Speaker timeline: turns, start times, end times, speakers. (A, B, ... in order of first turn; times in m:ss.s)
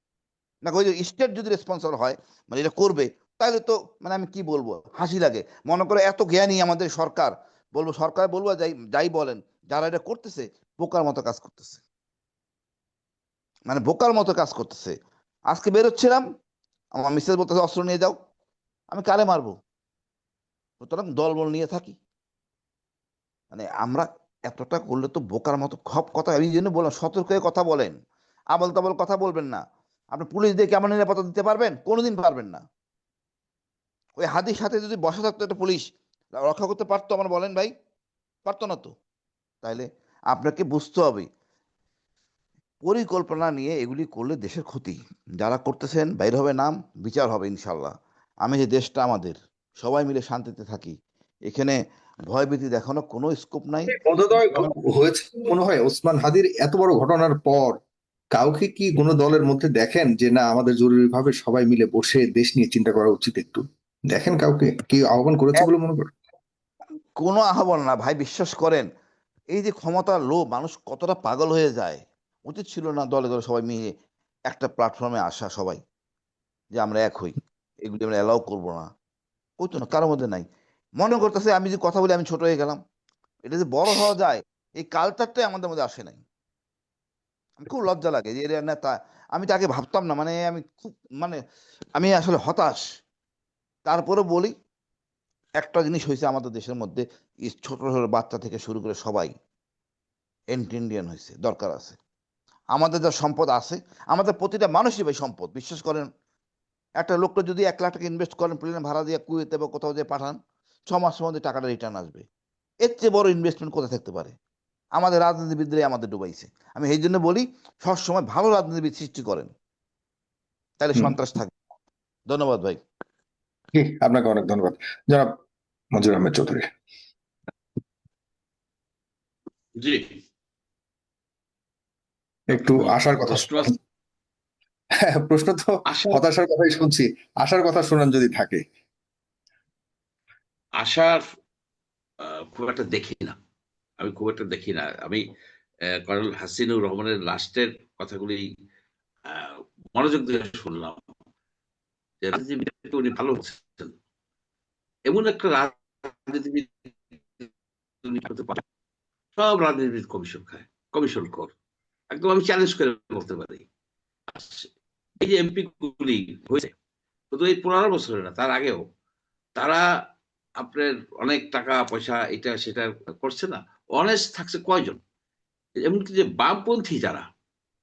0:00.6-0:11.8 A
0:13.7-0:14.9 A
0:15.5-0:16.2 A
0:17.0-0:18.1 A
0:18.9-0:19.5 A
0:20.8-0:22.0 A
0:23.5-0:27.9 A
0:28.5-0:29.6 A
0:30.1-0:32.6 A
0:34.2-0:35.8 A
0:36.4-0:37.7 A
0:38.4-0:38.9 A
0:39.6-0:41.3 A
0:42.8-0:47.9 A
0:48.4-0:50.9 A
0:51.5-0:51.8 A
0:52.3-0:54.7 A
0:53.9-0:57.8 B
0:58.3-1:06.1 B
1:07.2-1:08.9 A
1:09.5-1:13.8 A
1:14.5-1:15.8 A
1:16.8-1:18.9 A
1:19.6-1:20.4 A
1:21.0-1:22.8 A
1:23.4-1:26.2 A
1:27.6-1:31.4 A
1:32.0-1:32.8 A
1:33.9-1:34.5 A
1:35.6-1:39.3 A
1:40.5-1:42.0 A
1:42.7-1:46.1 A
1:47.0-1:50.4 A
1:50.9-1:52.2 A
1:52.8-1:54.3 A
1:55.0-1:59.5 A
2:00.8-2:01.5 A
2:02.3-2:02.8 A
2:03.7-2:05.3 B
2:06.0-2:06.7 B
2:09.8-2:10.0 C
2:12.5-2:13.8 C
2:12.5-2:13.7 B
2:15.0-2:18.6 B
2:15.9-2:16.2 C
2:20.8-2:21.2 C
2:22.2-2:23.3 C
2:24.0-2:25.2 C
2:26.0-2:28.4 C
2:29.2-2:31.0 C
2:32.2-2:33.9 C
2:35.1-2:37.4 C
2:38.0-2:38.6 C
2:39.4-2:41.5 C
2:42.1-2:43.6 C
2:44.3-2:44.7 C
2:45.2-2:46.7 C
2:47.3-2:48.8 C
2:49.6-2:49.8 C
2:50.6-2:55.0 C
2:55.8-2:57.2 C